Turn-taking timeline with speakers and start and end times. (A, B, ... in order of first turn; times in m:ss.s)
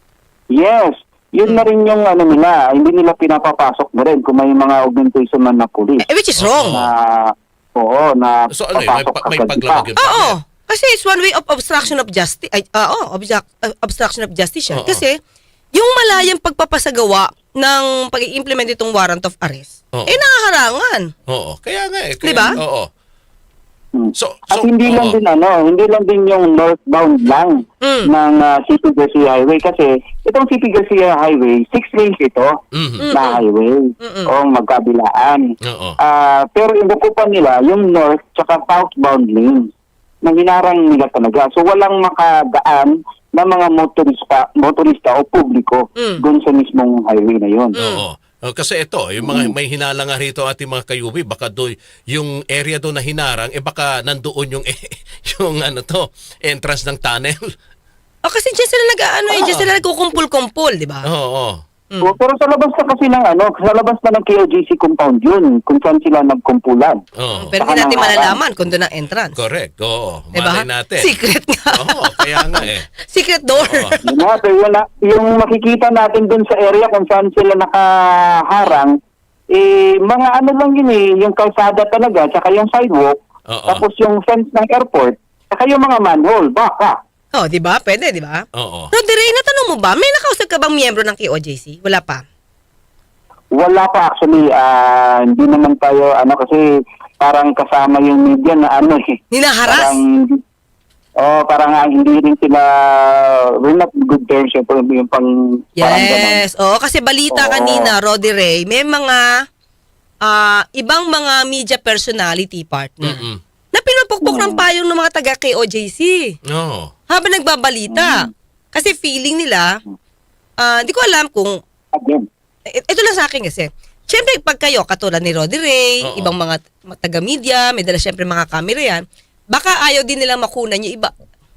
0:00.5-0:06.0 A
0:06.0-0:06.8 B
0:06.4-0:06.9 C
0:06.7-0:09.9 A
0:08.5-0:10.4 C
0:10.0-0:15.2 B
0:14.7-0:15.0 C
0:15.7-0:21.1 B
0:21.3-0:22.9 C
0:22.2-0:22.6 B
0:23.9-0:32.5 A
0:24.2-0:25.2 C
0:27.8-0:28.1 B
0:32.7-0:33.1 C
0:33.0-0:33.4 B
0:33.1-0:39.6 A
0:34.0-0:34.3 B
0:35.6-0:36.0 C
0:40.2-0:47.7 A
0:47.8-0:48.0 B
0:47.8-0:57.5 C
0:49.2-0:49.5 A
0:58.2-1:01.0 B
0:59.3-0:59.7 C
1:01.1-1:01.6 C
1:01.9-1:02.1 B
1:02.0-1:07.0 A
1:07.2-1:07.6 C
1:07.4-1:09.4 B
1:07.6-1:08.4 A
1:09.4-1:11.1 C
1:10.3-1:14.2 B
1:11.8-1:12.9 C
1:13.6-1:14.0 C
1:14.0-1:18.9 A
1:19.5-1:23.1 A
1:23.5-1:23.8 C
1:23.7-1:26.9 A
1:27.3-1:32.2 B
1:28.6-1:28.9 C
1:33.5-1:36.6 A
1:37.2-1:39.0 A
1:39.3-1:40.0 B
1:39.6-1:40.4 A
1:41.2-1:46.4 A
1:45.8-1:49.2 B
1:47.3-1:47.9 A
1:50.2-1:56.4 B
1:53.0-1:53.4 C
1:54.2-1:54.6 A
1:56.5-1:56.9 C
1:57.1-1:59.8 B
1:57.9-1:58.3 A
2:00.6-2:01.6 B
2:01.9-2:02.2 A
2:02.7-2:11.1 B
2:06.0-2:06.3 C